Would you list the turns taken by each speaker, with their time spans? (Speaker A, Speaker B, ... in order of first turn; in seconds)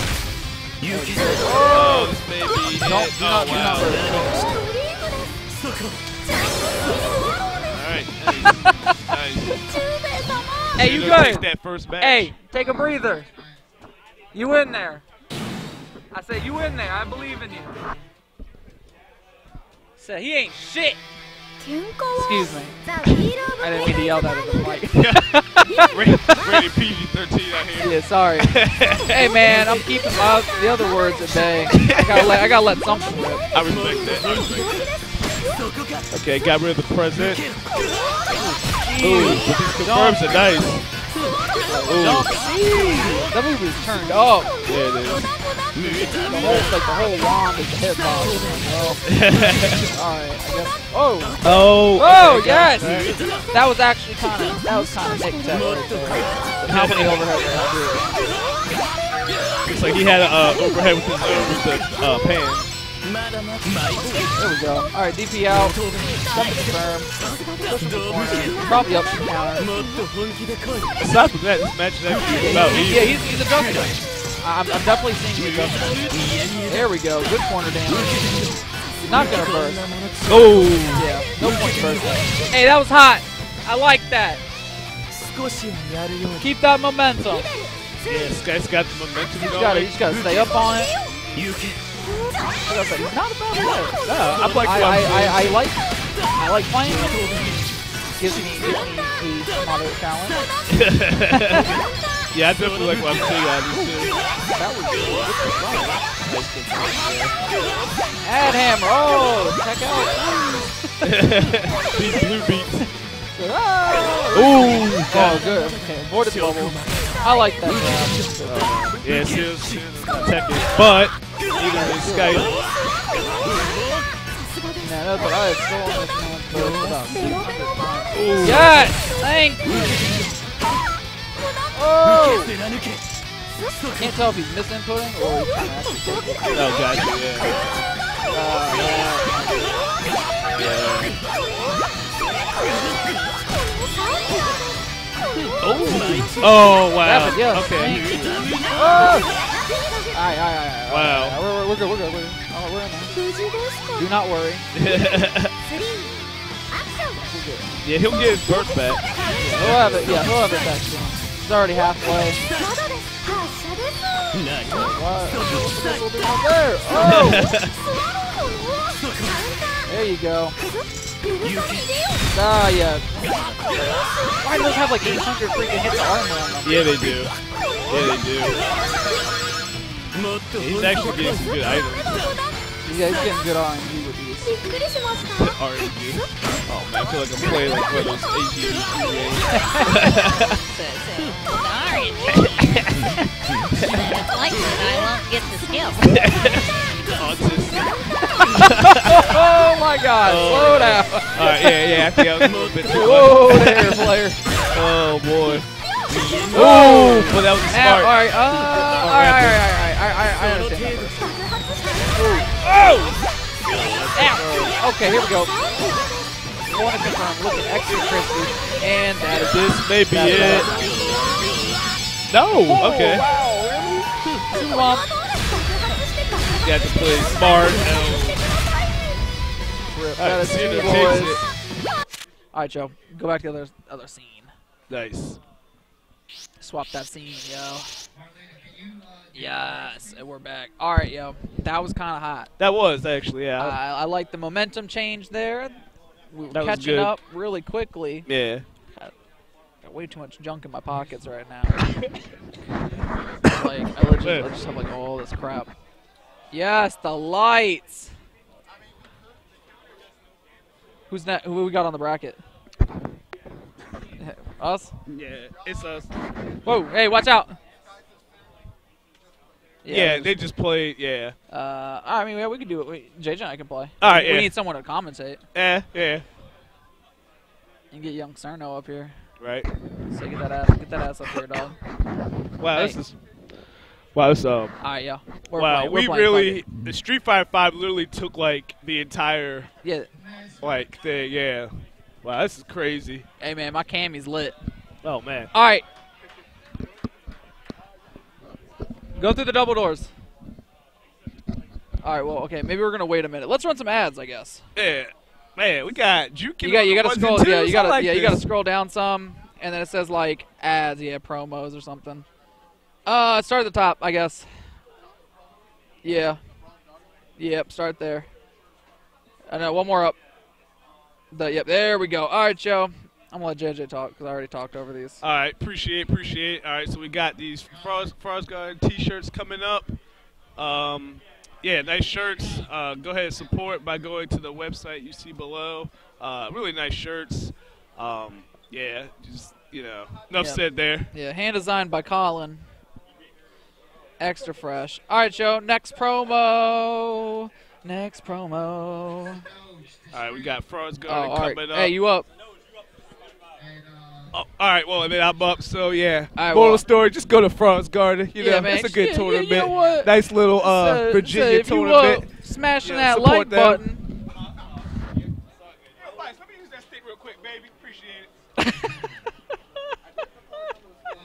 Speaker A: 0.8-2.1, 2.8-4.7, 8.4-8.9, 10.7-11.5, 12.0-13.3, 14.3-15.0, 16.1-17.9, 20.0-21.0, 22.1-22.8, 23.4-26.1, 27.8-33.5, 38.3-40.7, 41.6-44.5, 45.8-49.1, 49.7-58.5, 64.2-67.1, 67.7-69.8, 72.4-78.3, 79.0-79.9, 80.9-84.4, 86.3-87.5, 89.4-91.0, 92.5-94.0, 94.5-97.3, 98.2-100.4, 101.4-101.7, 104.5-106.0, 108.2-111.1, 113.3-119.0, 121.8-122.5, 124.8-130.0, 131.7-132.6, 134.0-136.6, 138.3-139.9, 147.0-149.3, 150.1-153.2, 153.9-154.7, 157.1-157.7, 159.4-162.4, 164.6-167.5, 169.9-170.6, 172.3-176.9, 182.8-184.7, 189.5-189.9, 198.3-204.4, 206.5-211.3, 212.0-212.5, 214.1-215.5, 216.7-221.3, 222.7-225.1, 229.9-231.4, 232.5-234.5, 236.6-237.9, 239.3-242.5, 243.6-248.3, 249.8-251.9, 253.4-255.7, 256.5-258.1, 261.1-262.4, 264.2-264.9, 266.6-267.6, 269.8-270.3, 271.5-275.4, 277.9-279.1, 280.1-281.8, 284.8-286.6, 289.8-290.1, 293.4-294.6, 295.5-295.8, 299.1-300.1, 302.0-304.6, 306.6-312.2, 313.1-314.5, 316.0-316.4, 317.4-318.3, 319.5-320.2, 321.3-325.2, 340.4-342.6, 344.2-349.4, 351.1-352.3, 356.3-356.8, 358.4-364.0, 368.6-369.3
Speaker B: 1.6-4.1, 7.7-9.7, 10.7-12.3, 24.9-29.3, 31.7-32.3, 33.5-34.9, 36.1-37.5, 39.0-40.9, 41.8-42.3, 44.6-45.3, 46.2-46.7, 49.0-49.9, 51.4-53.2, 56.7-57.2, 59.6-62.7, 71.0-73.2, 80.2-81.1, 88.0-90.0, 94.0-95.6, 100.7-101.7, 102.3-104.1, 106.2-107.3, 111.0-112.9, 114.3-115.5, 118.4-122.6, 128.1-128.9, 136.5-137.8, 140.5-141.2, 145.6-148.0, 150.9-151.4, 154.7-155.5, 157.8-160.0, 166.9-167.7, 176.6-177.3, 177.9-178.6, 180.5-182.4, 185.2-190.6, 196.0-199.4, 200.2-204.1, 204.7-205.7, 206.4-209.6, 212.6-214.7, 219.5-220.9, 222.3-223.2, 226.6-228.5, 230.2-231.4, 234.9-235.4, 242.6-243.8, 246.5-247.2, 248.2-248.7, 254.2-254.5, 265.1-266.1, 269.9-271.4, 274.0-274.5, 275.5-276.2, 279.4-279.7, 282.6-283.1, 284.1-284.8, 285.5-289.7, 290.6-293.3, 295.0-295.5, 304.8-308.4, 325.2-330.0, 330.6-341.1, 350.1-351.9, 354.3-362.3, 362.8-363.9, 365.9-368.3
Speaker C: 21.6-22.1, 153.4-153.7, 162.7-164.0, 184.8-185.2, 190.5-192.9, 193.9-196.2